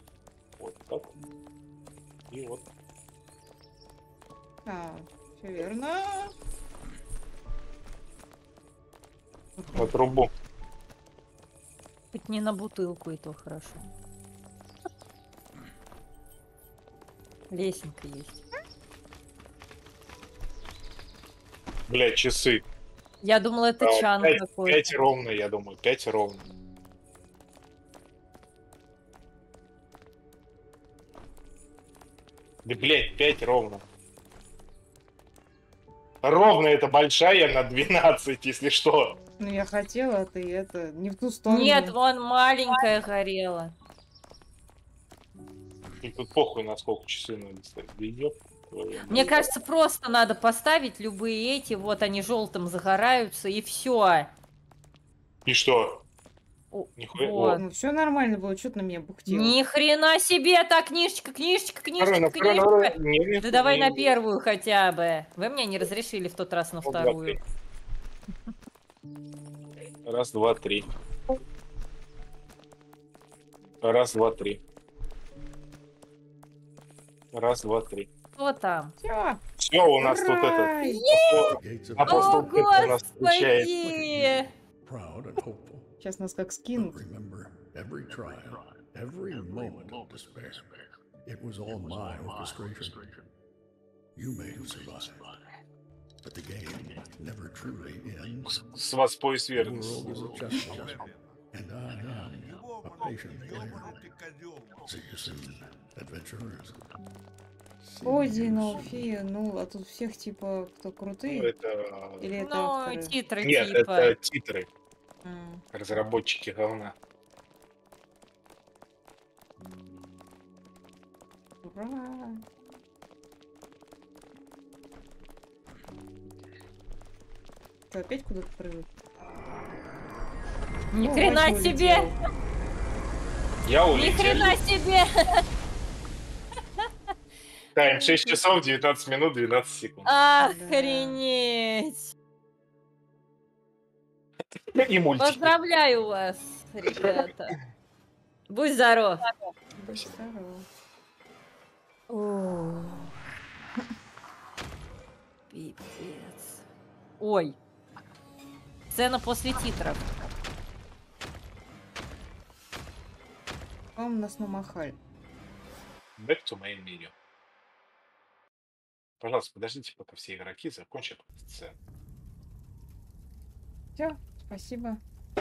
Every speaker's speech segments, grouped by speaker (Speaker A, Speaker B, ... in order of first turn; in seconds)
Speaker A: 0.6-1.1, 2.3-2.6, 9.7-10.3, 21.9-22.6, 23.8-26.4, 32.6-33.8, 36.2-39.2, 46.0-49.3, 55.5-56.0, 57.0-57.6, 62.0-64.1, 66.8-67.4, 70.0-70.9, 73.8-74.6, 77.3-78.1, 79.6-83.7, 98.7-100.3, 111.3-112.3, 113.4-114.7, 115.7-117.0, 133.7-134.6, 137.8-140.1, 144.7-145.5, 166.2-167.1, 169.2-171.8
Speaker B: 4.7-6.3, 9.6-9.9, 39.4-41.9, 49.1-49.5, 57.5-59.6, 79.0-79.4, 80.0-81.0, 86.0-87.0, 108.0-111.5, 112.2-113.2, 115.2-115.6, 121.6-122.4, 127.9-128.9, 131.0-132.2, 140.4-141.2, 149.8-150.7, 164.0-165.0, 174.0-175.0
Speaker C: 12.1-13.8, 17.5-18.4, 23.2-24.9, 41.5-43.7, 49.1-54.3, 56.7-57.6, 59.3-67.4, 78.4-79.0, 80.8-81.5, 82.0-84.5, 112.4-114.1, 130.9-132.1, 133.9-135.4, 137.9-138.4, 140.1-142.1, 145.2-147.6, 148.5-149.2, 152.1-153.1, 155.5-156.6, 157.2-157.6, 158.9-160.1
Speaker D: 81.6-82.9, 83.8-85.9, 86.8-90.7, 91.2-93.2, 94.2-95.3, 96.2-98.6, 99.5-103.9, 104.8-107.0, 107.8-109.1